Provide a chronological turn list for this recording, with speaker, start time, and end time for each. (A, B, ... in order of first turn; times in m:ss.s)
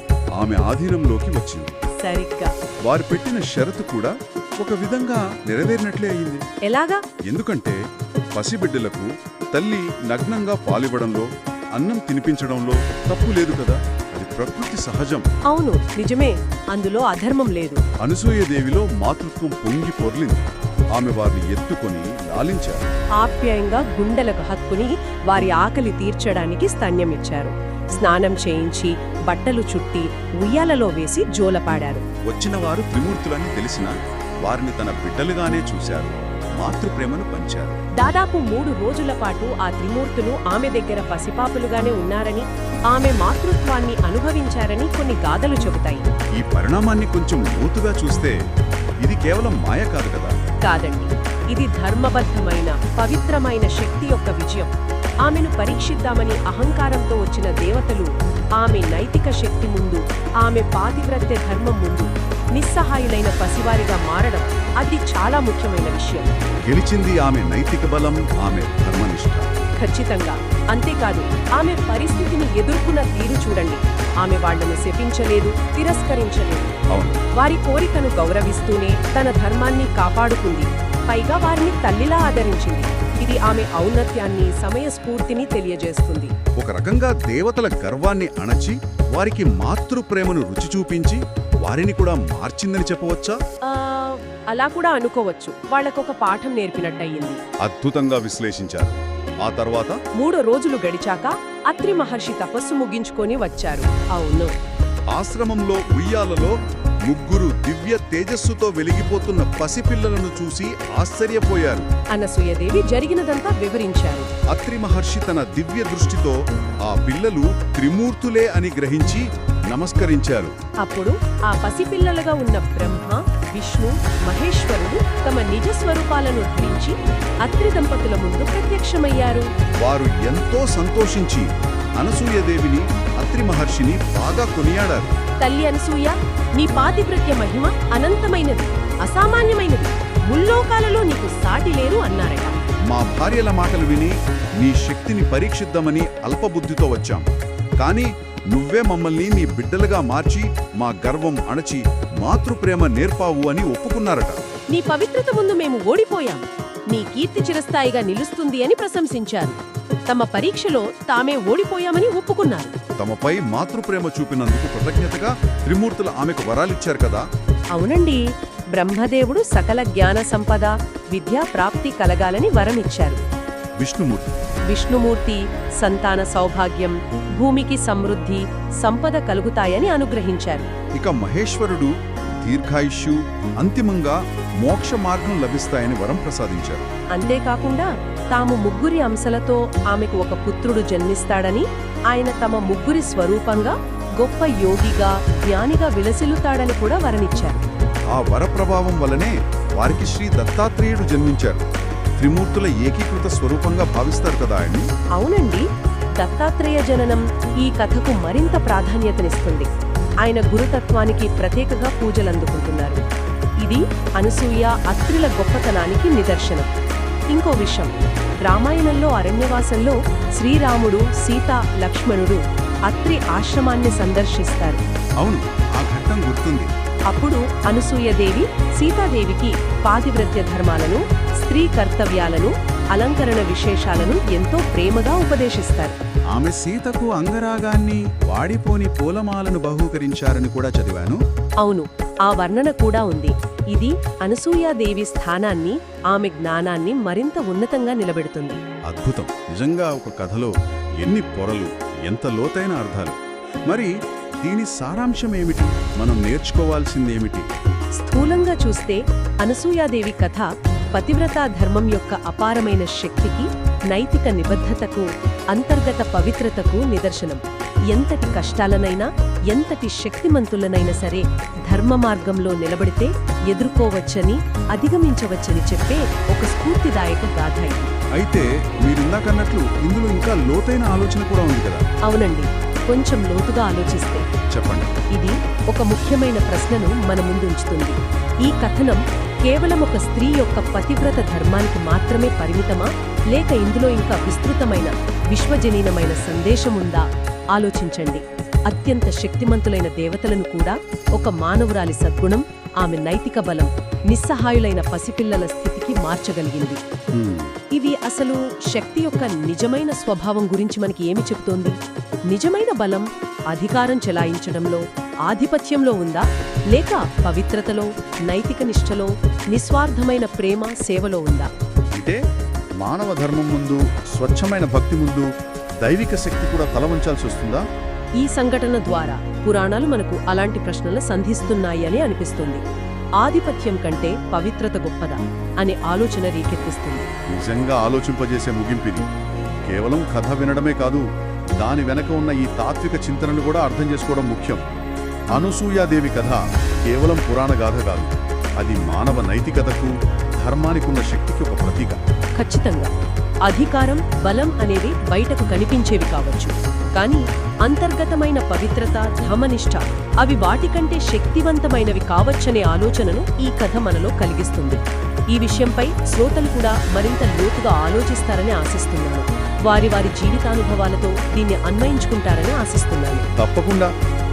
0:00.4-0:01.8 A
0:02.0-0:02.5 B
0:02.8-0:06.4 A
0:06.7-0:07.0 B
0:07.3-0:07.8 A
0:08.3-0:15.2 A
0:15.5-0:17.8 B
0:18.0-0:22.9 A
0:23.2-0:32.0 B
0:32.2-0:37.8 A
0:38.0-0:46.0 B
0:46.4-0:48.4 A
0:49.0-0:50.4 A
0:50.6-0:54.7 B
0:55.2-1:06.3 B
1:06.6-1:09.5 A
1:09.8-1:16.7 B
1:16.9-1:17.2 A
1:17.3-1:26.3 B
1:26.6-1:33.4 A
1:33.6-1:37.4 B
1:37.6-1:40.0 A
1:40.2-1:44.5 B
1:45.1-1:51.9 A
1:52.1-1:54.3 B
1:54.5-2:00.5 A
2:00.8-2:09.5 B
2:09.8-2:15.1 A
2:15.4-2:22.6 B
2:22.9-2:27.2 A
2:27.8-2:34.4 A
2:34.7-2:39.6 B
2:40.1-2:42.7 B
2:43.0-2:47.2 A
2:47.7-2:53.2 B
2:53.8-2:54.3 A
2:54.7-3:00.7 B
3:00.9-3:06.9 A
3:07.1-3:17.6 B
3:18.1-3:21.6 A
3:22.2-3:24.9 A
3:25.2-3:25.6 B
3:26.2-3:29.7 B
3:30.2-3:33.0 B
3:33.6-3:36.7 B
3:37.3-3:37.9 B
3:38.4-3:44.8 B
3:45.2-3:46.7 A
3:47.1-3:55.9 B
3:56.3-4:01.2 A
4:01.6-4:08.6 B
4:08.8-4:17.5 A
4:18.0-4:37.9 B
4:38.2-4:41.8 A
4:42.1-4:44.2 B
4:44.5-4:44.9 A
4:45.1-5:06.8 B
5:07.1-5:07.5 A
5:07.7-5:11.8 B
5:12.3-5:21.5 B
5:21.9-5:22.2 A
5:22.8-5:25.3 A
5:25.8-5:27.6 A
5:28.2-5:32.6 B
5:33.2-5:37.1 B
5:37.3-5:39.1 A
5:39.6-5:41.0 A
5:41.6-5:44.6 A
5:45.3-5:52.0 A
5:52.4-5:52.9 B
5:53.5-6:04.8 B
6:05.3-6:13.2 B
6:13.4-6:13.9 A